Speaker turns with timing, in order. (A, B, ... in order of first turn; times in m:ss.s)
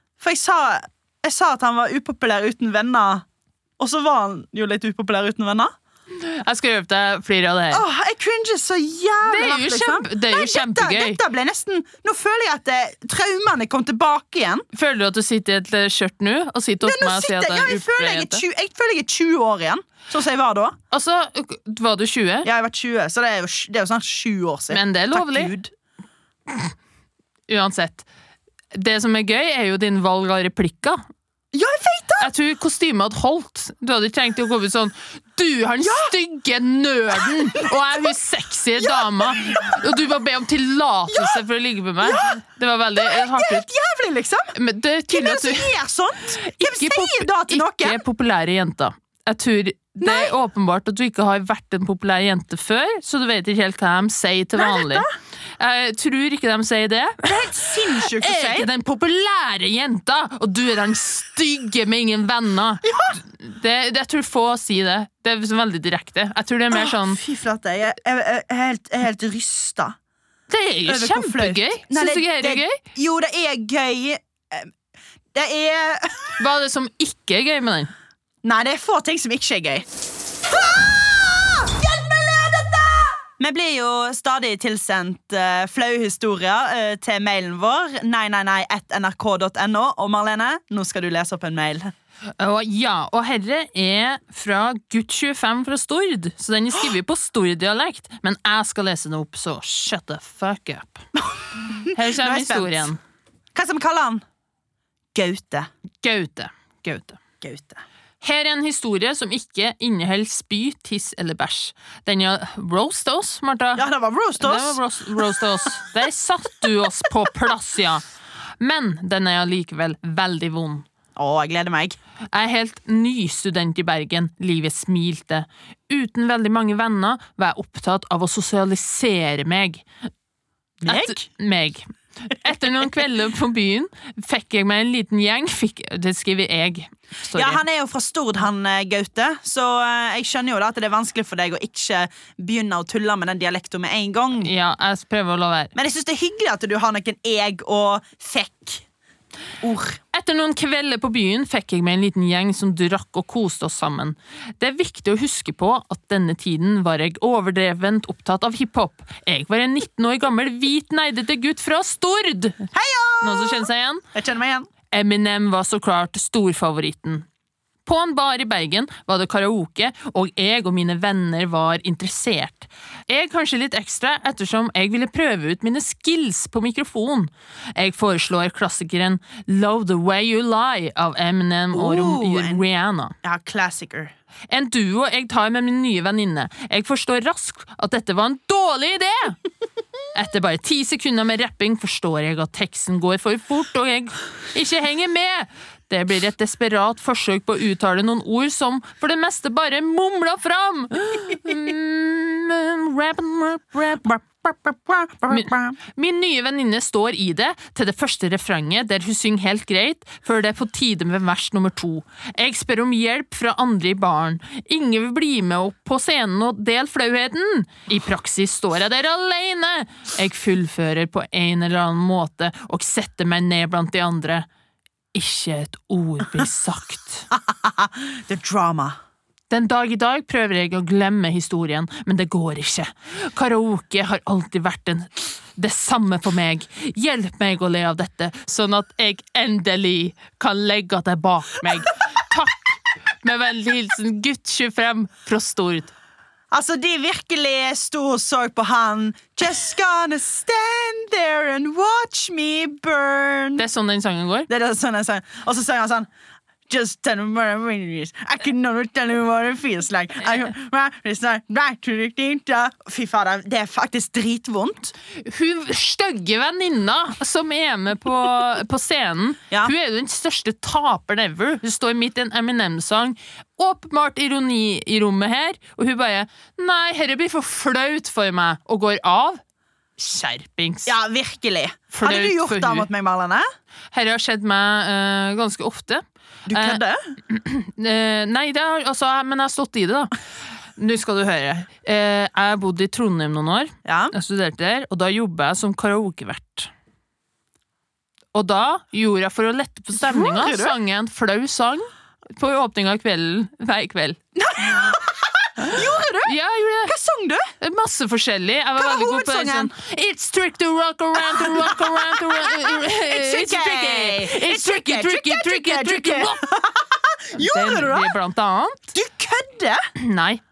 0:00.2-0:03.2 A
0:03.8-0:05.7 A
0:06.1-0:07.8 B
0:07.7-0:14.6 A
0:09.3-0:11.2 B
0:14.7-0:18.4 B
0:16.8-0:20.8 A
0:20.9-0:22.5 B
0:22.4-0:25.7 A
0:24.7-0:25.5 B
0:27.5-0:28.0 B
0:28.7-0:31.0 B
0:31.5-0:32.3 A
0:32.2-0:43.6 B
0:35.8-0:36.1 A
0:38.8-0:39.8 A
0:41.1-0:41.4 A
0:42.0-0:42.4 A
0:43.0-0:44.6 A
0:44.5-0:45.8 B
0:45.1-0:48.0 A
0:46.4-0:55.0 B
0:50.0-0:50.3 A
0:54.5-0:55.1 A
0:55.6-1:07.2 B
0:57.2-0:58.7 A
1:02.8-1:03.2 A
1:06.7-1:10.0 A
1:10.5-1:12.8 B
1:10.8-1:14.7 A
1:15.3-1:16.4 A
1:16.4-1:17.9 B
1:18.4-1:19.9 A
1:20.4-1:31.9 A
1:32.4-1:41.0 B
1:41.6-1:42.9 A
1:41.9-1:43.0 B
1:43.5-1:44.2 A
1:45.1-1:45.7 A
1:46.0-1:47.2 B
1:47.4-1:47.8 A
1:48.2-1:53.8 B
1:53.8-1:54.8 A
1:54.4-1:58.0 B
1:58.6-2:00.8 B
2:01.2-2:02.0 A
2:02.3-2:09.8 B
2:10.8-2:11.2 A
2:10.8-2:17.6 B
2:17.3-2:24.5 A
2:24.4-2:25.7 B
2:25.7-2:28.8 A
2:29.6-2:30.0 A
2:30.1-2:42.6 B
2:42.7-2:44.7 A
2:43.2-2:44.0 B
2:44.9-2:47.2 B
2:47.8-3:03.1 B
3:01.7-3:02.6 A
3:03.2-3:04.1 A
3:04.5-3:09.4 B
3:10.1-3:24.1 B
3:24.0-3:25.8 A
3:25.3-3:44.5 B
3:45.1-3:47.3 B
3:47.3-3:49.0 A
3:49.5-4:05.9 B
4:06.5-4:13.6 A
4:13.6-4:14.5 B
4:14.5-4:16.1 A
4:16.7-4:24.9 A
4:25.2-4:39.4 B
4:40.0-4:40.9 B
4:40.8-4:43.4 A
4:41.9-4:42.9 B
4:43.9-4:50.1 B
4:46.5-4:47.0 A
4:50.8-4:56.7 B
4:53.8-4:54.1 A
4:58.3-5:04.2 B
4:59.9-5:00.7 A
5:04.3-5:07.5 A
5:05.6-5:06.9 B
5:07.6-5:16.4 B
5:08.8-5:09.7 A
5:11.2-5:18.2 A
5:17.4-5:18.9 B
5:18.9-5:19.8 A
5:20.0-5:20.4 B